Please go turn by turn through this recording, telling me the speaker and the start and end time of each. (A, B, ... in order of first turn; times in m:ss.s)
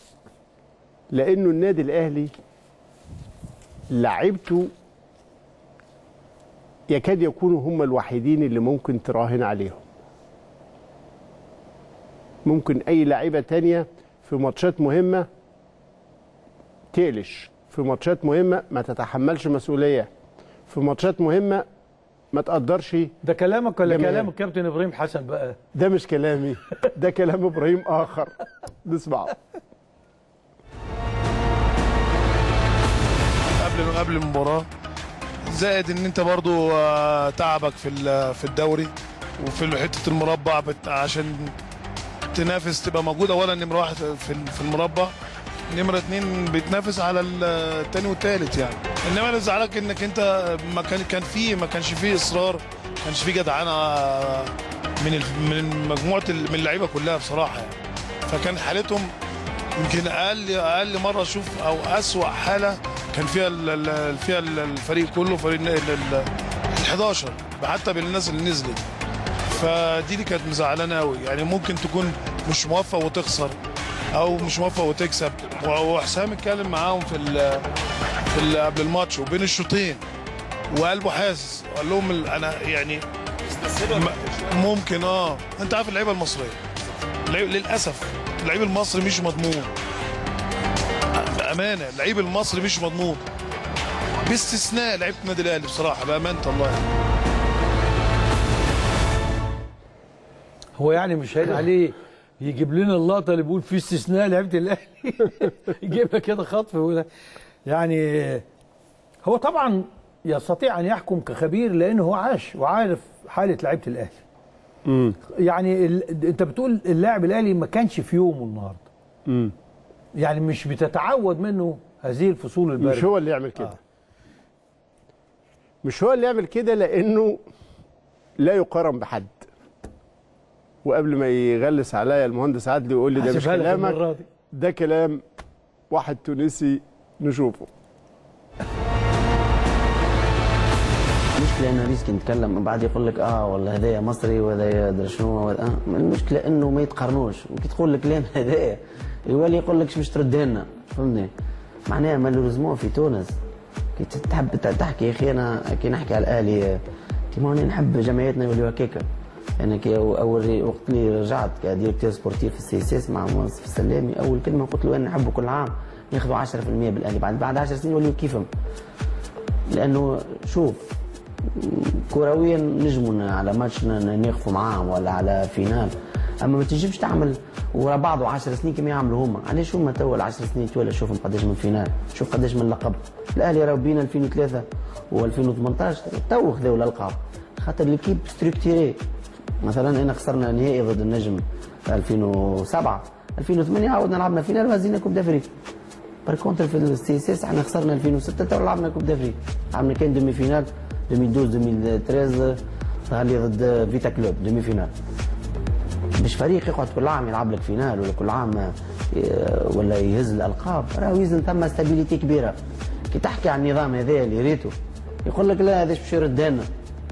0:01.1-0:02.3 A
0:03.9-0:04.7 A
0:06.9-0:09.8 A
0:12.4-0:15.3 A
0:16.9-0:20.1 A
0:20.7-0:21.7 A
0:22.3-0:23.1 A
0:23.2-0:25.6 B
0:23.8-0:24.3 A
0:25.7-0:28.3 A
0:28.8-0:29.4 A
0:33.6-0:34.7 C
0:35.5-0:41.5 C
0:42.3-0:45.1 C
0:45.7-0:57.8 C
0:58.3-0:59.1 C
0:59.8-1:08.8 C
1:09.5-1:13.6 C
1:14.1-1:17.6 C
1:18.3-1:20.0 C
1:20.7-1:23.0 C
1:23.8-1:26.6 C
1:27.3-1:29.7 C
1:31.1-1:33.2 C
1:34.2-1:36.8 C
1:40.7-1:47.1 B
1:47.6-1:48.4 B
1:49.2-1:54.2 B
1:54.8-1:55.2 A
1:55.3-1:58.9 B
1:59.2-1:59.5 A
2:00.2-2:03.7 B
2:02.8-2:03.8 A
2:05.8-2:07.4 A
2:08.4-2:09.4 A
2:10.8-2:14.0 A
2:13.1-2:14.3 B
2:14.5-2:15.2 A
2:15.9-2:17.7 A
2:21.4-2:31.3 D
2:31.9-2:33.3 D
2:34.0-2:39.0 D
2:39.6-2:48.5 D
2:49.7-2:50.9 D
2:51.5-3:09.0 D
3:09.6-3:15.5 D
3:16.2-3:24.9 D
3:26.2-3:32.6 D
3:33.1-3:36.7 D